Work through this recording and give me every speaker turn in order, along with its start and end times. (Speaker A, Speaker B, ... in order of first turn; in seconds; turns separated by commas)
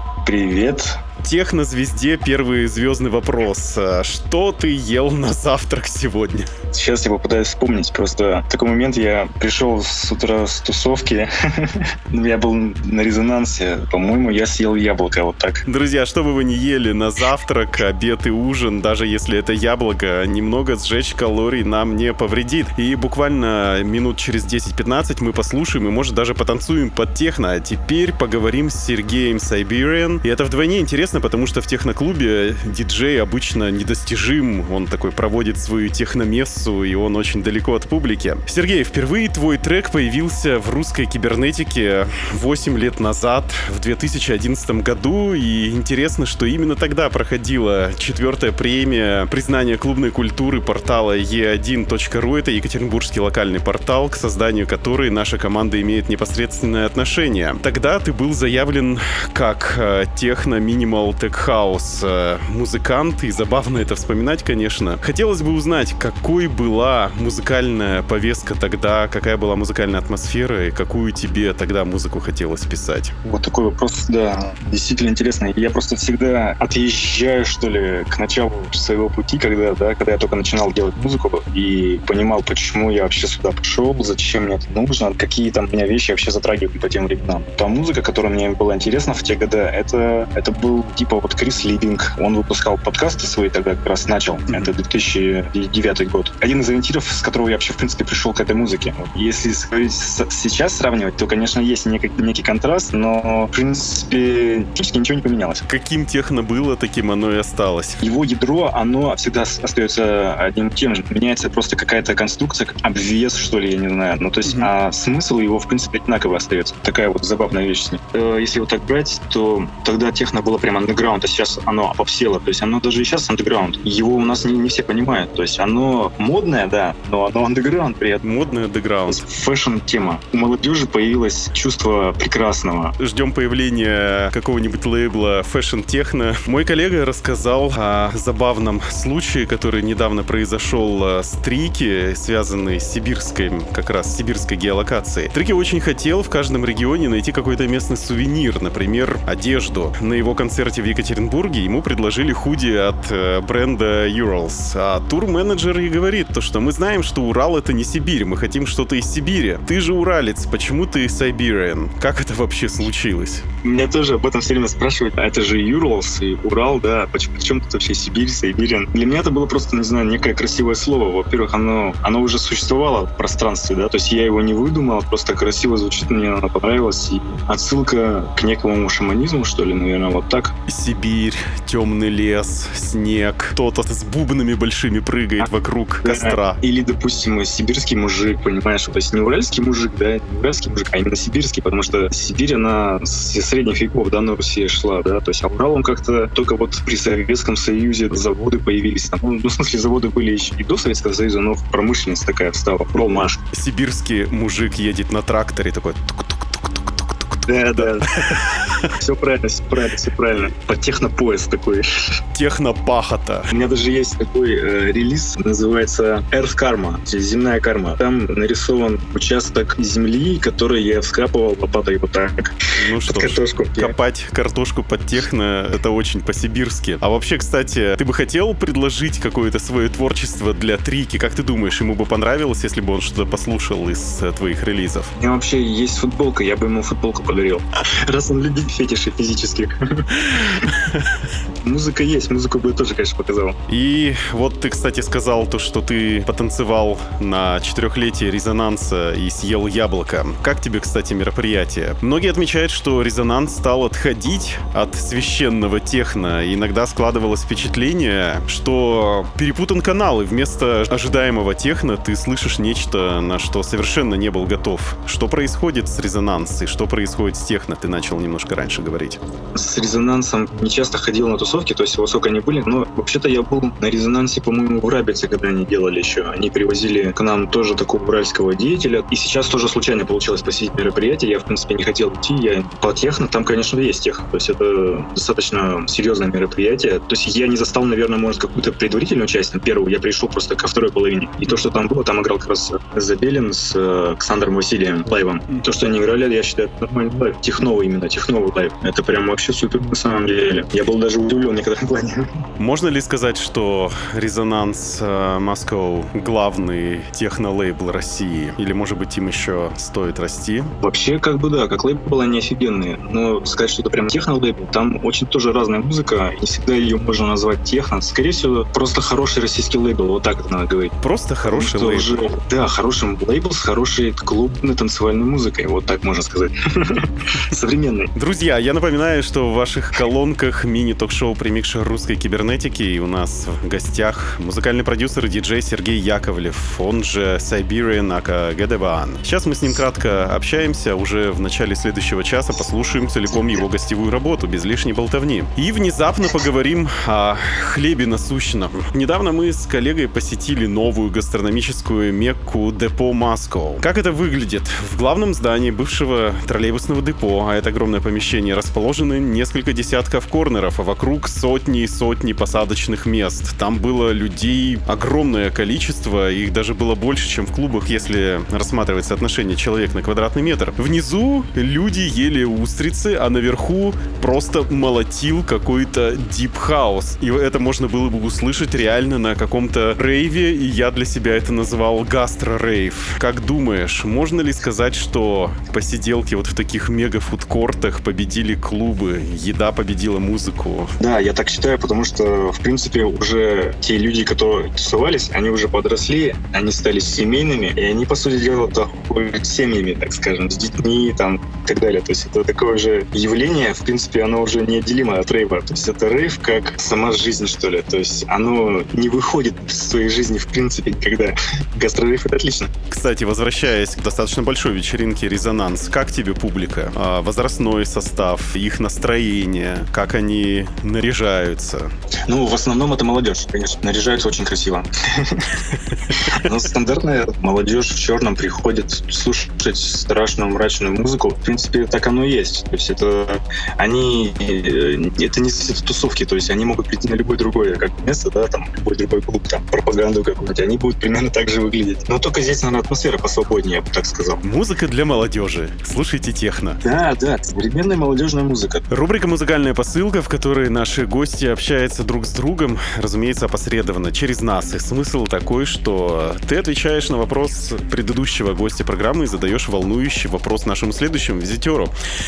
Speaker A: 0.2-1.0, Speaker B: 1.2-6.5, Speaker A: 6.7-15.7, Speaker B: 15.7-73.1, Speaker A: 73.2-105.6, Speaker B: 105.7-108.0, Speaker A: 108.0-128.2, Speaker B: 114.4-114.7, Speaker B: 128.2-129.2, Speaker A: 129.1-132.9, Speaker B: 133.0-163.4, Speaker A: 163.6-180.5, Speaker B: 180.7-186.6, Speaker A: 186.0-203.4, Speaker B: 203.5-207.1, Speaker A: 207.5-208.4, Speaker B: 207.8-208.9, Speaker A: 209.0-212.2, Speaker B: 212.3-213.5, Speaker A: 213.5-223.9, Speaker B: 222.8-235.1, Speaker A: 235.2-240.7, Speaker B: 240.3-241.2, Speaker A: 241.6-243.6, Speaker B: 243.7-269.2, Speaker A: 269.5-302.3, Speaker B: 302.6-310.7, Speaker A: 310.8-320.9, Speaker B: 321.0-322.2, Speaker A: 321.4-328.1, Speaker B: 328.1-390.9, Speaker A: 391.0-412.7, Speaker B: 412.9-421.9, Speaker A: 422.3-425.6, Speaker A: 426.1-444.4, Speaker B: 444.4-446.8, Speaker A: 446.8-448.8, Speaker B: 448.9-461.9